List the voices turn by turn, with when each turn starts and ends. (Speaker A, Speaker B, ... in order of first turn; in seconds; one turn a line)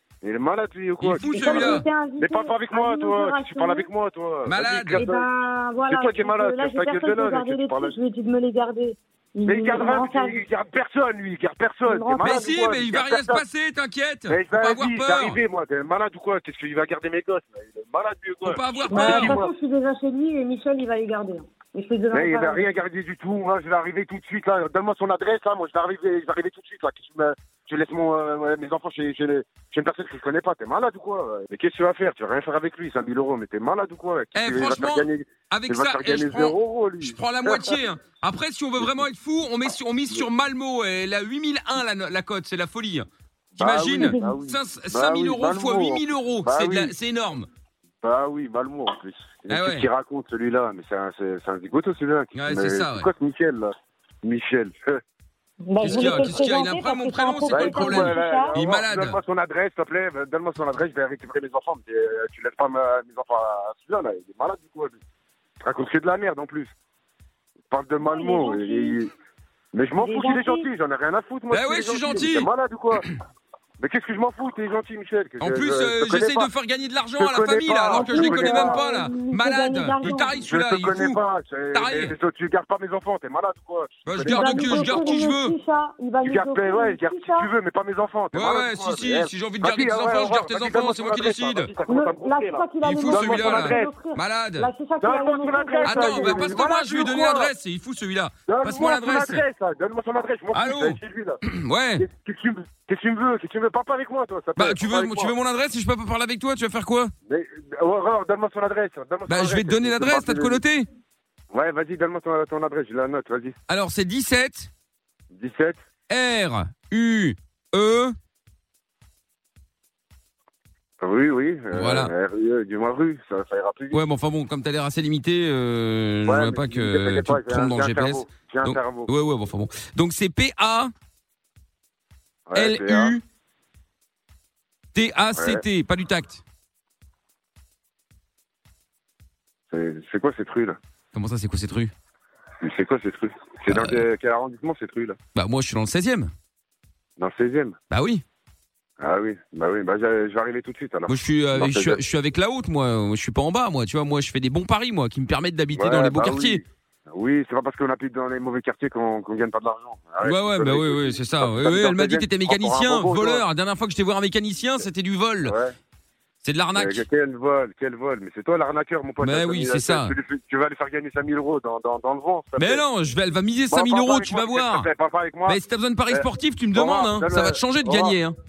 Speaker A: 0.2-5.3
Speaker B: 1.0-1.8
Speaker C: 1.2-3.9
Speaker B: 4.4-5.0
Speaker C: 4.9-10.4
Speaker A: 5.9-7.9
Speaker A: 9.4-13.4
Speaker C: 11.8-12.6
Speaker B: 12.2-15.4
Speaker A: 14.3-19.5
Speaker B: 18.4-19.4
Speaker C: 18.9-22.6
Speaker A: 22.1-37.8
Speaker B: 34.3-43.1
Speaker A: 38.8-39.0
Speaker A: 43.5-46.9
Speaker B: 43.6-47.5
Speaker C: 44.0-44.2
Speaker A: 48.0-53.7
Speaker B: 49.5-49.9
Speaker B: 52.3-53.1
Speaker A: 54.2-55.0
Speaker C: 55.6-58.6
Speaker B: 55.8-59.2
Speaker A: 55.8-56.3
Speaker A: 57.5-65.0
Speaker A: 65.6-66.7
Speaker A: 67.7-69.1
Speaker C: 68.0-69.0
Speaker A: 69.7-73.0
Speaker C: 70.0-70.7
Speaker B: 71.5-72.5
Speaker A: 73.8-76.5
Speaker B: 75.4-81.2
Speaker A: 77.2-78.8
Speaker C: 77.9-80.4
Speaker A: 80.0-85.1
Speaker B: 81.7-82.1
Speaker B: 84.0-85.5
Speaker C: 84.2-87.5
Speaker A: 86.2-93.9
Speaker B: 88.3-91.7
Speaker C: 91.9-96.5
Speaker B: 92.8-94.7
Speaker A: 95.0-97.5
Speaker B: 95.8-99.4
Speaker A: 98.5-101.4
Speaker B: 100.5-102.0
Speaker A: 102.0-105.3
Speaker B: 104.6-107.1
Speaker A: 107.2-110.6
Speaker B: 109.3-110.9
Speaker A: 111.5-113.6
Speaker B: 113.7-114.7
Speaker A: 115.3-115.8
Speaker B: 116.1-118.2
Speaker A: 121.0-124.0
Speaker B: 121.7-122.1
Speaker B: 123.9-130.9
Speaker A: 126.3-129.1
Speaker A: 132.5-133.2
Speaker B: 132.5-133.2
Speaker B: 134.9-136.4
Speaker A: 135.3-135.6
Speaker A: 139.7-140.8
Speaker B: 141.1-141.9
Speaker A: 142.6-145.2
Speaker B: 143.7-144.0
Speaker B: 145.3-146.3
Speaker A: 147.2-147.8
Speaker B: 147.9-148.2
Speaker A: 149.0-152.0
Speaker B: 151.1-156.6
Speaker A: 155.7-163.4
Speaker B: 160.2-165.5
Speaker A: 165.4-165.7
Speaker B: 166.4-167.0
Speaker A: 166.7-172.8
Speaker B: 169.2-170.1
Speaker B: 172.6-174.9
Speaker A: 173.7-178.2
Speaker B: 175.4-178.3